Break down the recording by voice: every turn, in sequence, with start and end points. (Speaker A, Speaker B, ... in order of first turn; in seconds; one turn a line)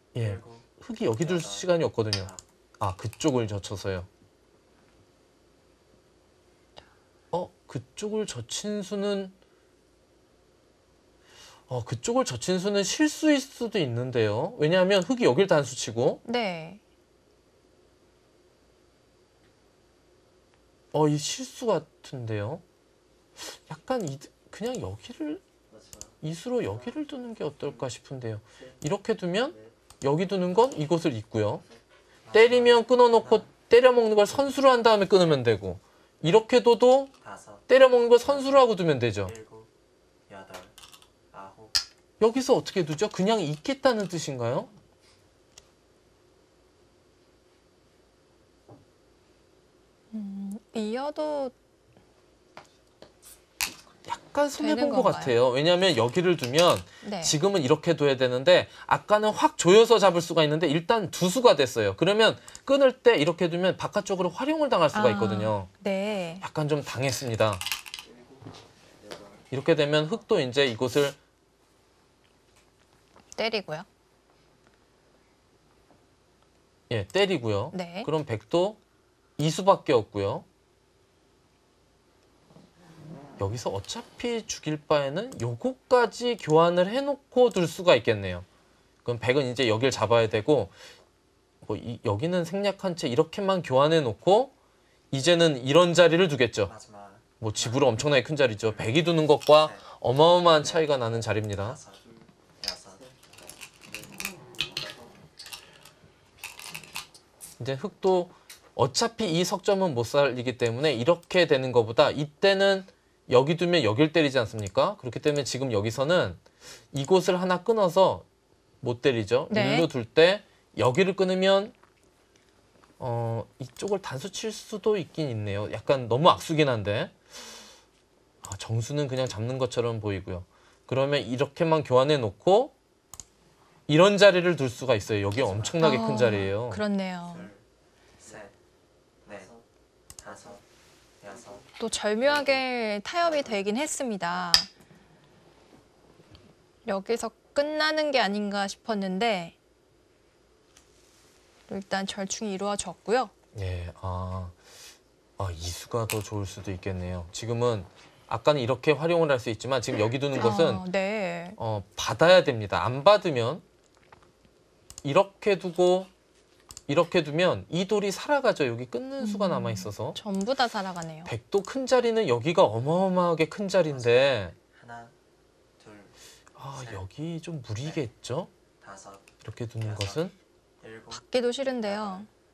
Speaker A: 0.1-4.1
Speaker B: 0.2-2.4
Speaker A: 7.3-9.3
Speaker A: 11.7-16.2
Speaker C: 16.2-16.8
Speaker A: 20.9-22.6
Speaker A: 23.4-25.4
Speaker A: 26.2-31.6
Speaker B: 32.2-33.5
Speaker A: 32.3-37.1
Speaker B: 37.2-37.6
Speaker A: 37.7-39.3
Speaker B: 38.3-38.6
Speaker B: 39.2-39.7
Speaker B: 40.3-40.7
Speaker B: 41.3-41.7
Speaker A: 42.2-44.7
Speaker C: 50.1-51.5
Speaker A: 54.1-65.7
Speaker C: 54.5-55.4
Speaker C: 57.0-57.4
Speaker C: 64.9-66.4
Speaker A: 66.4-67.6
Speaker A: 69.5-71.2
Speaker C: 73.4-73.9
Speaker A: 76.9-78.8
Speaker C: 77.7-78.1
Speaker A: 79.4-80.5
Speaker A: 83.4-88.5
Speaker A: 89.0-90.8
Speaker A: 91.6-94.5
Speaker A: 95.1-96.7
Speaker B: 96.7-98.0
Speaker A: 97.4-101.8
Speaker B: 99.6-99.9
Speaker B: 100.6-101.0
Speaker B: 101.5-102.0
Speaker B: 102.6-103.0
Speaker A: 107.6-116.4
Speaker A: 116.9-118.2
Speaker A: 118.8-121.7
Speaker C: 119.5-119.9
Speaker A: 123.0-127.1
Speaker A: 128.4-132.7
Speaker A: 133.9-136.8
Speaker B: 135.4-136.1
Speaker C: 135.8-137.5
Speaker B: 137.3-137.6
Speaker B: 138.2-138.5
Speaker B: 139.2-139.6
Speaker B: 140.2-140.6
Speaker B: 141.2-141.6
Speaker C: 141.8-144.7
Speaker B: 143.3-143.7
Speaker C: 146.8-149.5
Speaker C: 151.7-153.3
Speaker A: 153.5-154.6
Speaker A: 155.4-160.8
Speaker C: 160.3-161.6
Speaker A: 161.6-163.6
Speaker A: 165.0-166.1
Speaker A: 166.9-170.2
Speaker C: 169.2-171.3
Speaker A: 171.2-174.5
Speaker B: 173.9-175.1
Speaker B: 175.8-176.1
Speaker A: 176.6-178.5
Speaker B: 176.7-177.1
Speaker B: 178.8-179.3
Speaker A: 179.4-180.3
Speaker B: 179.8-180.3
Speaker B: 180.8-181.2
Speaker C: 181.1-182.3
Speaker B: 181.8-182.2